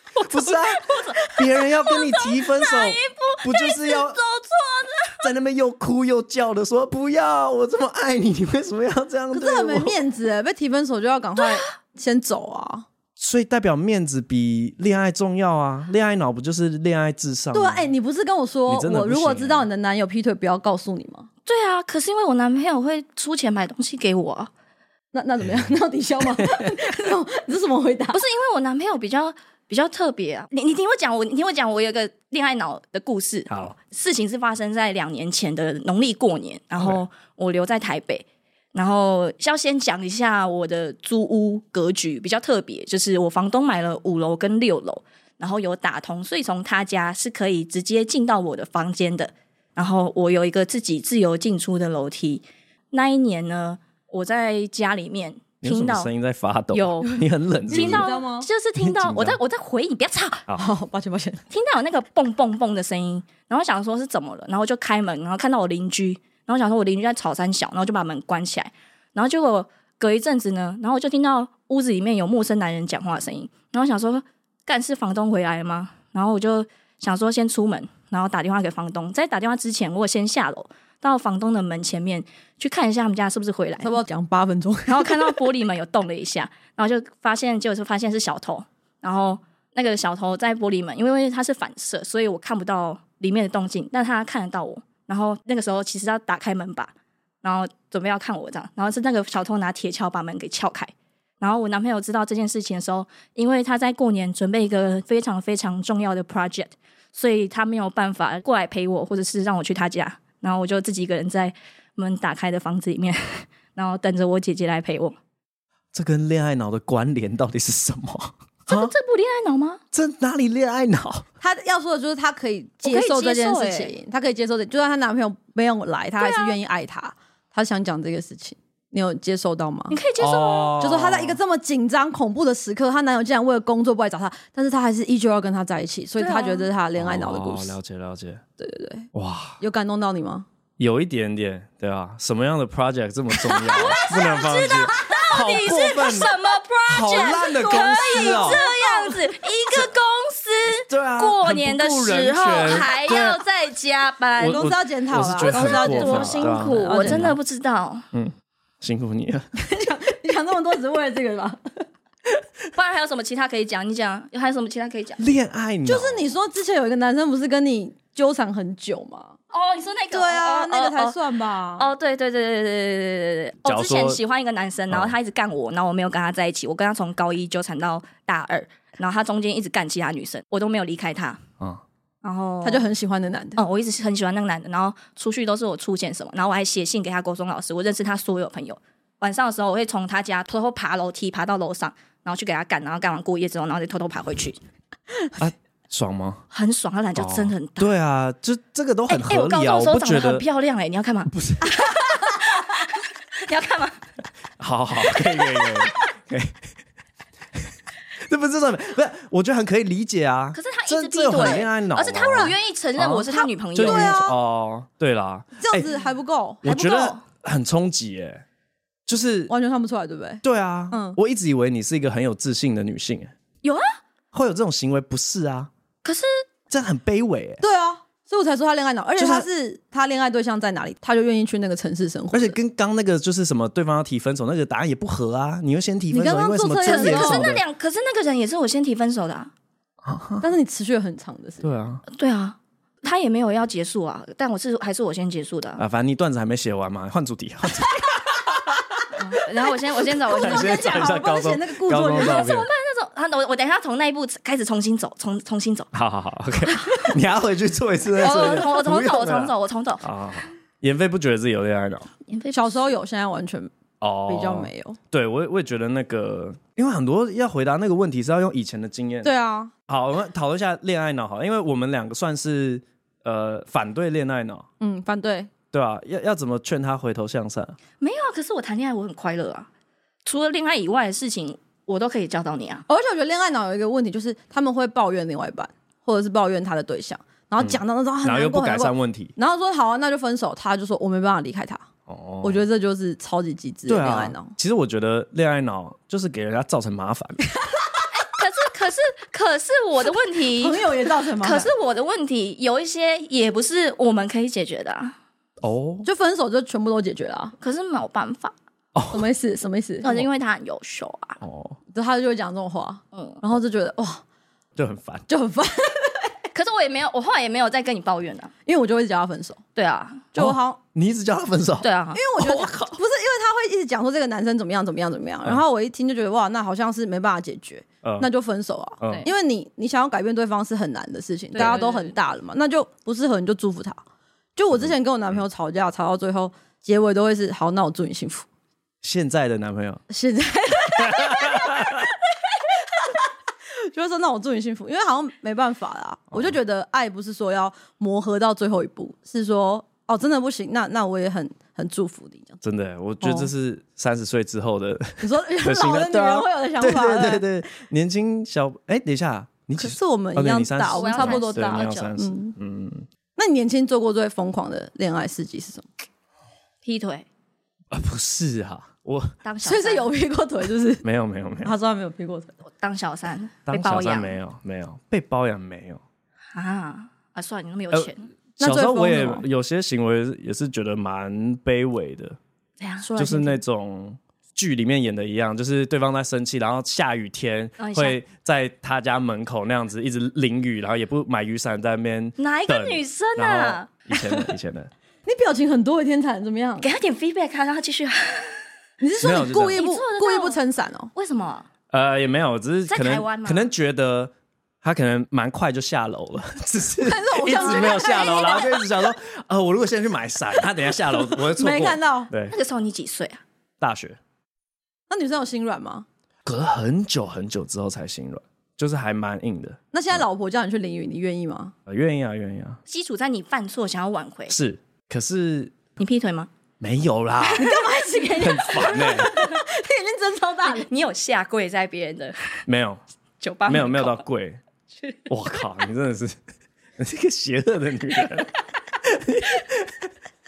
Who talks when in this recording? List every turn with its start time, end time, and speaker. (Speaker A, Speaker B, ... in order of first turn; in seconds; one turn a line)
Speaker A: 0.1-1.2
Speaker B: 0.2-4.2
Speaker A: 1.9-5.2
Speaker B: 5.2-9.9
Speaker C: 9.3-12.9
Speaker A: 11.4-11.7
Speaker B: 13.2-17.9
Speaker C: 17.5-21.3
Speaker B: 18.7-19.7
Speaker A: 21.4-24.5
Speaker C: 25.1-28.2
Speaker B: 26.4-26.8
Speaker A: 28.1-56.1
Speaker B: 33.5-33.7
Speaker B: 55.6-58.1
Speaker A: 56.7-60.5
Speaker C: 57.7-58.5
Speaker B: 58.8-59.4
Speaker C: 60.5-61.4
Speaker A: 61.5-84.0
Speaker C: 83.8-85.4
Speaker A: 84.9-115.2
Speaker B: 115.9-118.9
Speaker A: 118.7-119.8
Speaker B: 119.9-121.2
Speaker C: 121.4-130.0
Speaker A: 122.8-123.9
Speaker A: 126.2-126.6
Speaker A: 129.9-130.8
Speaker B: 130.2-131.4
Speaker C: 130.8-137.7
Speaker A: 136.2-136.7
Speaker B: 136.9-138.4
Speaker C: 138.6-140.4
Speaker B: 139.1-139.6
Speaker B: 140.8-146.3
Speaker C: 143.4-144.0
Speaker A: 143.7-154.7
Speaker B: 146.9-148.6
Speaker C: 147.7-149.3
Speaker B: 150.9-153.4
Speaker C: 154.4-157.2
Speaker B: 154.4-157.4
Speaker A: 155.3-158.0
Speaker B: 158.1-159.5
Speaker C: 159.6-161.8
Speaker A: 162.7-165.2
Speaker B: 165.2-166.3
Speaker C: 165.8-169.3
Speaker A: 169.5-171.2
Speaker C: 170.1-171.9
Speaker A: 171.8-181.4
Speaker B: 173.6-174.2
Speaker A: 182.2-182.8
Speaker C: 182.6-183.6
Speaker A: 183.6-194.6
Speaker B: 195.4-196.4
Speaker A: 196.5-197.9
Speaker B: 197.2-200.4
Speaker A: 199.1-204.0
Speaker B: 201.3-201.8
Speaker B: 204.6-206.7
Speaker A: 205.0-206.0
Speaker B: 208.2-215.9
Speaker A: 210.5-214.2
Speaker C: 213.8-214.4
Speaker C: 215.6-216.6
Speaker B: 216.6-218.4
Speaker A: 216.6-217.2
Speaker B: 219.1-219.5
Speaker C: 219.5-221.2
Speaker B: 220.4-223.3
Speaker A: 223.6-224.0
Speaker B: 224.3-225.7
Speaker A: 226.0-226.4
Speaker B: 226.7-227.6
Speaker C: 227.6-232.6
Speaker B: 229.2-229.5
Speaker B: 232.3-237.6
Speaker C: 236.1-237.5
Speaker A: 236.8-239.5
Speaker B: 240.0-240.5
Speaker C: 240.4-241.7
Speaker B: 241.6-242.0
Speaker A: 242.1-245.8
Speaker B: 245.8-248.8
Speaker A: 249.2-251.0
Speaker C: 250.3-252.5
Speaker B: 250.3-252.7
Speaker A: 252.2-255.9
Speaker B: 255.9-262.1
Speaker A: 256.7-257.1
Speaker A: 258.2-260.1
Speaker A: 262.2-262.9
Speaker C: 262.5-263.7
Speaker B: 264.0-269.3
Speaker C: 264.3-265.0
Speaker C: 269.2-269.7
Speaker B: 269.9-274.7
Speaker C: 274.8-275.5
Speaker B: 275.7-277.8
Speaker A: 278.0-279.7
Speaker A: 280.2-282.8
Speaker C: 282.9-291.9
Speaker B: 287.6-289.3
Speaker B: 292.1-292.6
Speaker C: 292.4-294.5
Speaker B: 293.9-297.4
Speaker A: 298.1-305.1
Speaker C: 300.6-301.7
Speaker B: 305.6-306.1
Speaker C: 306.0-307.6
Speaker A: 307.6-308.5
Speaker B: 308.9-309.3
Speaker C: 309.1-310.1
Speaker A: 310.0-311.4
Speaker B: 311.4-311.8
Speaker C: 311.9-314.2
Speaker A: 313.1-313.4
Speaker B: 314.8-315.2
Speaker C: 315.3-316.4
Speaker A: 316.5-318.5
Speaker C: 318.6-319.6
Speaker A: 319.7-320.2
Speaker C: 320.3-320.8
Speaker B: 320.4-321.9
Speaker A: 321.8-322.6
Speaker C: 322.1-334.0
Speaker B: 322.4-322.7
Speaker B: 328.0-328.3
Speaker B: 329.0-329.3
Speaker A: 331.5-332.1
Speaker C: 334.6-338.4
Speaker B: 339.0-340.0
Speaker C: 340.1-342.1
Speaker B: 341.0-342.1
Speaker C: 343.8-352.6
Speaker B: 352.6-363.1
Speaker C: 353.2-353.5
Speaker C: 355.2-357.4
Speaker C: 359.8-362.5
Speaker A: 360.9-362.1
Speaker C: 363.4-365.9
Speaker A: 366.8-367.3
Speaker B: 367.9-369.4
Speaker A: 369.4-370.1
Speaker C: 369.6-371.0
Speaker B: 371.0-371.7
Speaker C: 371.6-372.5
Speaker A: 372.6-374.4
Speaker B: 373.7-376.0
Speaker A: 376.5-378.3
Speaker B: 377.9-382.4
Speaker C: 378.6-379.4
Speaker A: 382.8-383.6
Speaker B: 383.1-394.9
Speaker A: 387.8-388.2
Speaker A: 392.4-393.9
Speaker C: 394.2-394.4
Speaker C: 395.2-396.9
Speaker A: 396.8-398.6
Speaker C: 399.0-401.1
Speaker B: 399.2-399.8
Speaker A: 399.7-400.6
Speaker A: 401.1-401.7
Speaker B: 401.9-412.5
Speaker A: 402.9-403.7
Speaker C: 407.0-408.9
Speaker A: 407.5-408.8
Speaker C: 411.2-412.3
Speaker A: 412.5-413.4
Speaker B: 413.8-414.2
Speaker C: 415.1-416.1
Speaker B: 416.4-420.2
Speaker C: 419.9-421.7
Speaker B: 421.9-422.8
Speaker A: 422.9-424.6
Speaker B: 424.5-425.8
Speaker A: 426.0-426.5
Speaker B: 426.8-427.7
Speaker C: 427.5-430.9
Speaker B: 428.4-429.4
Speaker A: 429.2-429.6
Speaker A: 430.6-432.6
Speaker B: 432.7-433.0
Speaker A: 433.4-434.2
Speaker B: 433.6-434.6
Speaker A: 434.9-435.3
Speaker B: 435.3-436.4
Speaker B: 437.0-440.1